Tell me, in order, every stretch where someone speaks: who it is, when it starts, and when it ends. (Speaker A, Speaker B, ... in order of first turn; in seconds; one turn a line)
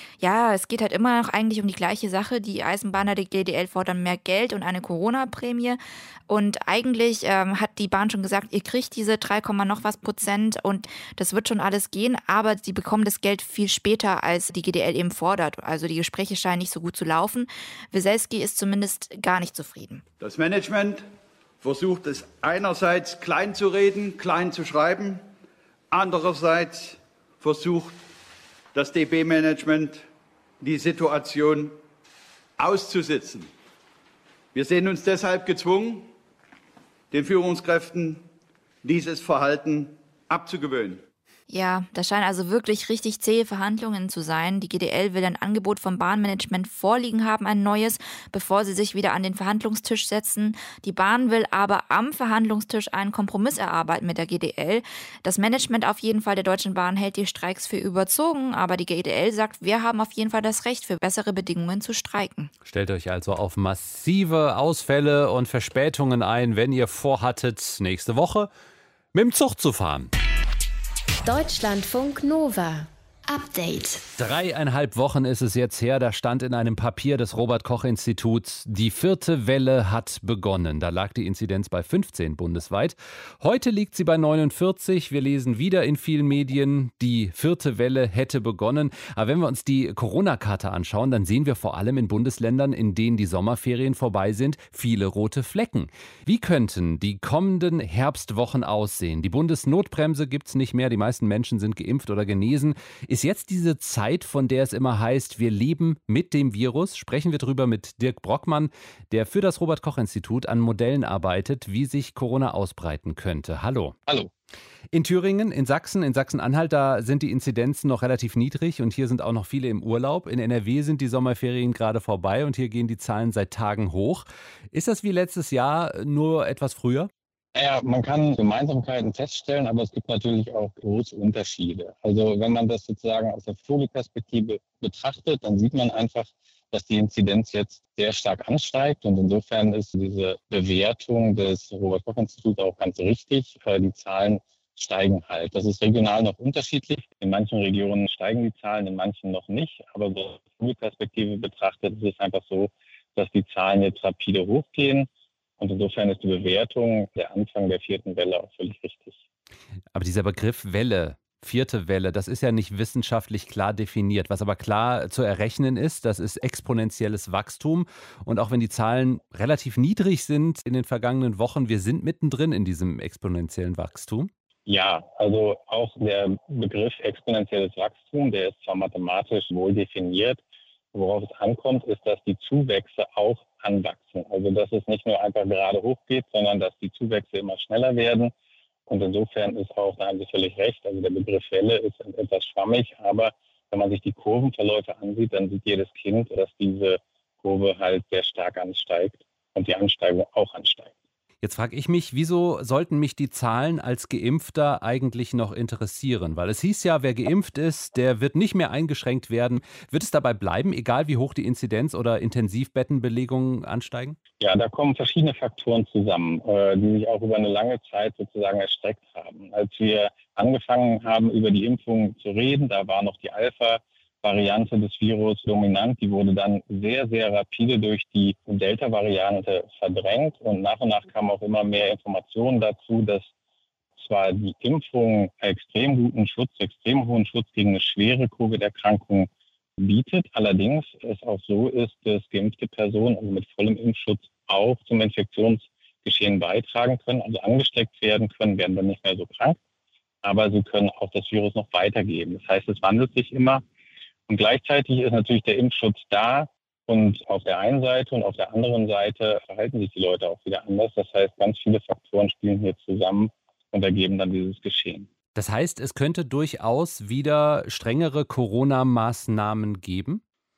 Speaker A: 0.2-20.0
Speaker B: 20.2-21.1
Speaker B: 21.6-25.2
Speaker B: 25.9-28.0
Speaker B: 28.7-30.0
Speaker B: 30.6-31.8
Speaker B: 32.6-33.5
Speaker B: 34.5-36.1
Speaker B: 37.1-38.2
Speaker B: 38.8-41.0
Speaker A: 41.5-62.5
Speaker C: 62.6-68.5
Speaker C: 69.1-70.1
Speaker D: 71.2-74.0
Speaker C: 74.2-113.9
Speaker C: 114.9-127.1
Speaker E: 127.5-159.2
Speaker C: 159.9-174.3
Speaker E: 174.7-180.4
Speaker E: 180.9-188.3
Speaker E: 188.9-200.9
Speaker C: 201.4-214.2
Speaker E: 214.4-233.3
Speaker E: 234.0-249.6
Speaker E: 250.2-253.6
Speaker E: 254.3-265.1
Speaker C: 265.4-270.2